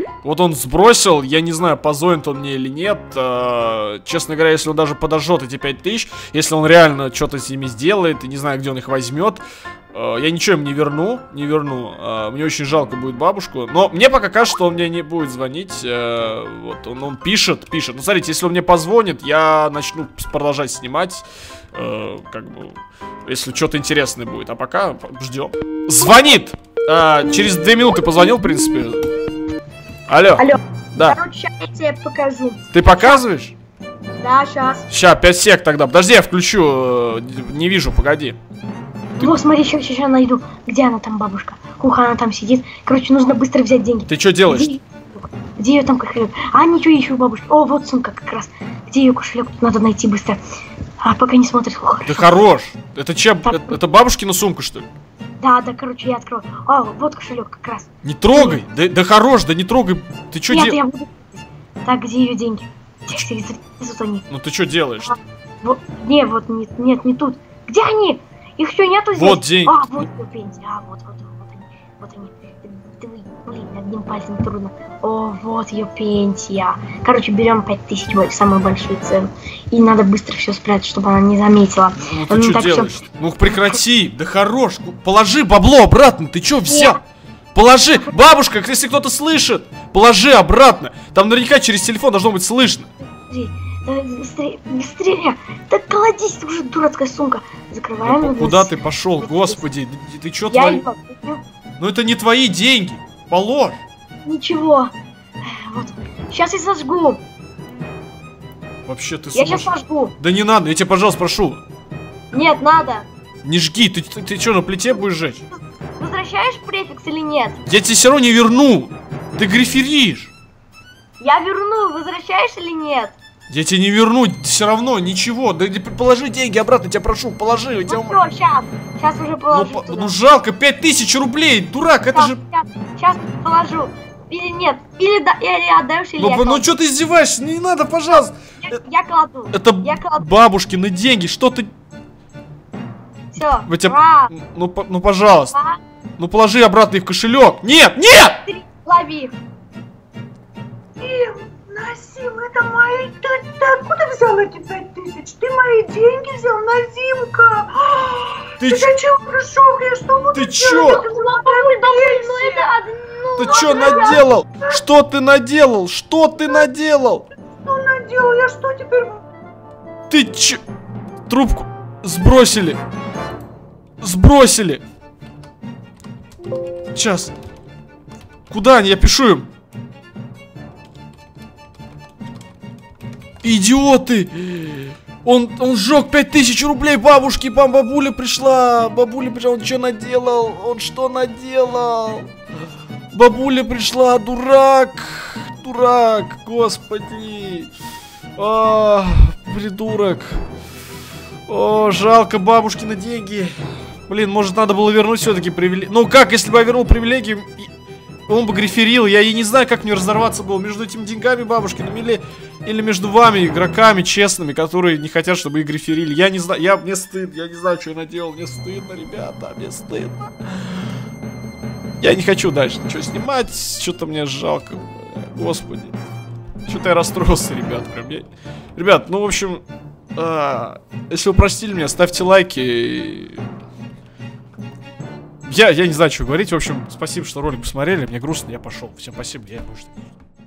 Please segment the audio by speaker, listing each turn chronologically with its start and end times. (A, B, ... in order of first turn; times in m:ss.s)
0:00.2-0:09.4 A
0:09.9-0:29.1 A
0:30.1-0:31.2 A
0:30.4-0:33.2 B
0:32.7-0:33.6 A
0:34.2-0:34.9 B
0:34.9-0:38.4 A
0:39.2-0:50.4 B
0:44.1-0:44.7 A
0:51.0-0:52.4 B
0:52.1-0:54.9 A
0:55.4-0:58.6 B
0:58.0-1:00.8 A
1:00.5-1:04.2 B
1:04.3-1:05.2 A
1:05.1-1:23.0 B
1:09.1-1:09.9 A
1:22.0-1:27.0 A
1:23.5-1:23.8 B
1:26.7-1:27.0 B
1:27.5-1:32.9 A
1:33.3-1:39.6 B
1:38.0-1:40.9 A
1:40.5-1:41.4 B
1:41.8-1:43.8 A
1:44.2-1:44.9 B
1:45.4-1:47.2 B
1:48.9-1:51.6 A
1:49.4-1:50.1 B
1:52.3-1:53.1 B
1:53.4-1:55.4 A
1:55.5-1:57.6 B
1:57.7-2:00.3 A
2:01.2-2:03.1 B
2:03.5-2:08.2 A
2:07.9-2:10.1 B
2:09.5-2:12.4 A
2:12.1-2:16.7 B
2:16.2-2:18.8 A
2:18.6-2:20.3 B
2:19.5-2:21.7 A
2:23.3-2:24.3 B
2:23.6-2:25.6 A
2:25.5-2:25.8 B
2:26.2-2:28.4 A
2:28.4-2:29.4 B
2:31.0-2:40.9 C
2:38.6-2:38.9 A
2:40.3-2:41.0 A
2:40.9-2:44.3 B
2:41.5-2:42.7 C
2:43.4-2:47.3 A
2:47.6-2:49.2 C
2:50.1-2:50.6 A
2:51.3-2:52.8 A
2:54.0-2:54.8 A
2:56.9-2:57.3 A
2:58.5-2:59.5 A
3:03.4-3:12.3 A
3:13.1-3:17.7 A
3:18.4-3:20.4 A
3:21.5-3:23.6 A
3:24.1-3:27.7 A
3:28.3-3:40.3 A
3:42.0-3:46.0 A
3:46.7-3:49.6 A
3:50.2-3:53.4 A
3:55.4-4:00.0 A